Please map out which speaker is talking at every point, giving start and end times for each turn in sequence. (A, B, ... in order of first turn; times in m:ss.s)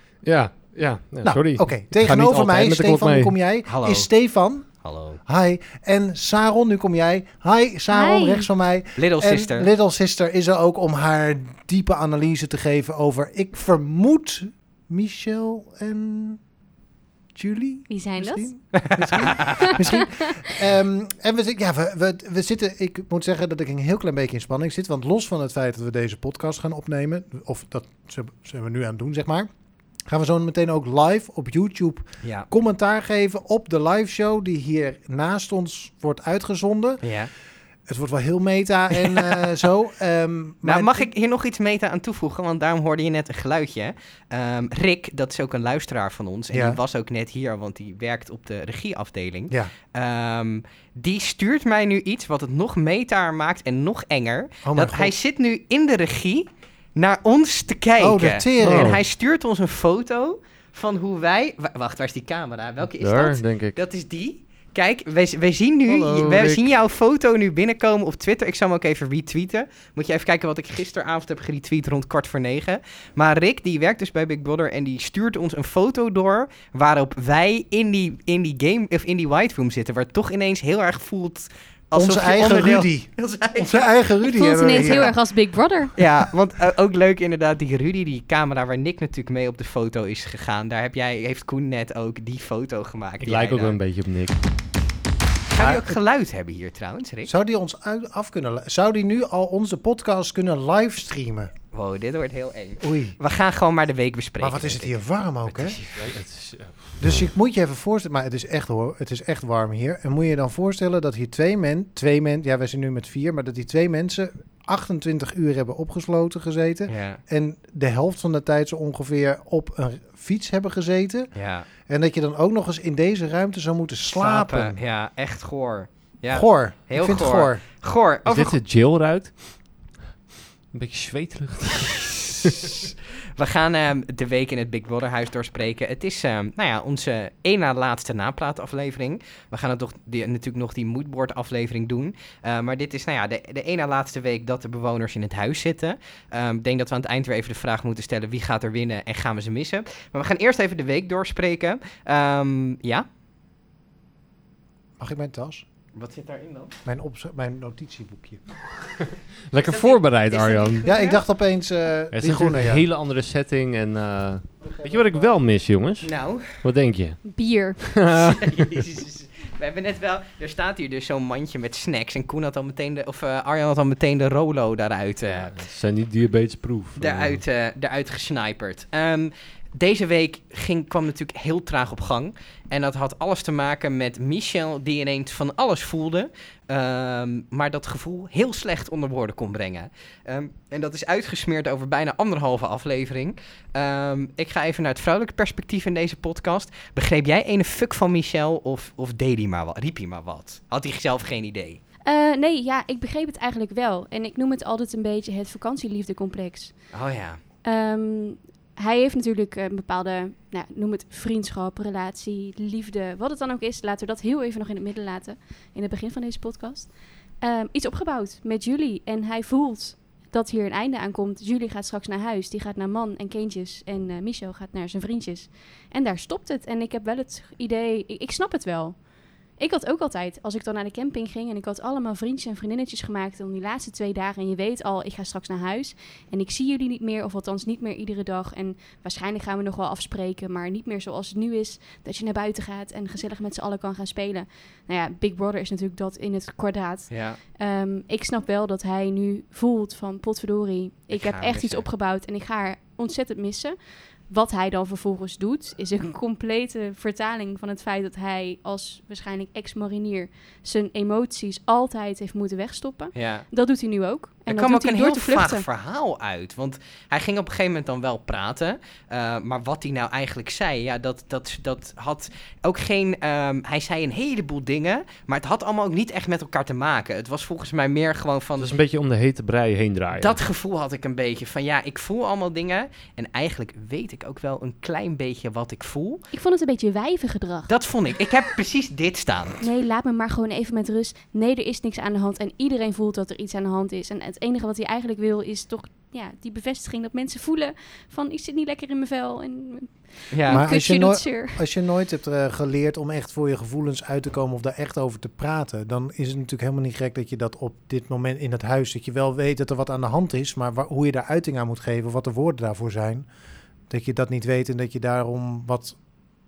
0:00.2-0:03.3 A
0:01.2-0:04.7 B
0:03.7-0:04.1 C
0:04.8-0:05.2 C
0:05.3-0:16.4 B
0:07.9-0:08.5 D
0:09.0-0:09.7 C
0:17.4-0:29.5 B
0:17.9-0:18.5 D
0:18.7-0:19.6 C
0:19.4-0:20.3 D
0:30.1-0:37.0 B
0:32.2-0:32.5 C
0:37.0-0:37.3 C
0:37.9-0:41.1 B
0:39.0-0:39.4 C
0:40.6-1:23.9 C
0:46.5-0:46.8 B
0:54.6-0:55.1 B
0:58.0-0:59.0 B
0:58.6-0:59.0 A
1:03.0-1:03.8 A
1:05.9-1:06.6 A
1:21.9-1:25.1 B
1:24.3-1:25.9 D
1:24.8-1:25.1 C
1:26.0-1:33.8 C
1:33.2-1:34.4 A
1:35.5-1:37.3 C
1:35.6-1:36.0 B
1:37.3-1:41.5 B
1:41.7-1:44.9 C
1:42.8-1:43.2 B
1:44.4-1:45.8 B
1:45.5-1:46.1 C
1:46.0-1:47.2 A
1:47.0-2:01.3 B
1:56.9-1:57.2 C
2:01.4-2:01.7 C
2:01.9-2:04.8 B
2:04.1-2:08.6 C
2:06.3-2:07.6 B
2:08.3-2:09.6 A
2:10.7-2:12.8 A
2:13.4-2:33.1 C
2:35.0-2:35.6 B
2:35.9-2:36.7 C
2:36.8-2:38.4 B
2:39.5-2:40.9 A
2:39.7-2:41.2 C
2:40.8-2:42.9 B
2:42.1-2:47.2 A
2:44.7-2:45.3 B
2:46.0-2:46.4 C
2:47.3-2:47.8 D
2:47.8-2:48.8 A
2:48.1-2:55.5 C
2:55.4-2:57.4 A
2:57.0-3:21.8 C
3:22.0-3:26.8 D
3:26.9-3:27.4 C
3:27.6-3:49.0 D
3:49.6-4:13.8 D
4:07.1-4:07.4 C
4:11.1-4:11.9 C
4:14.3-4:25.6 D
4:23.2-4:23.5 C
4:24.5-4:38.7 C
4:38.6-4:40.4 A
4:40.1-4:46.2 C
4:46.3-4:47.7 D
4:47.7-4:49.6 C
4:49.6-5:01.6 D
5:00.3-5:00.6 C
5:00.5-5:13.3 B
5:13.9-5:16.0 B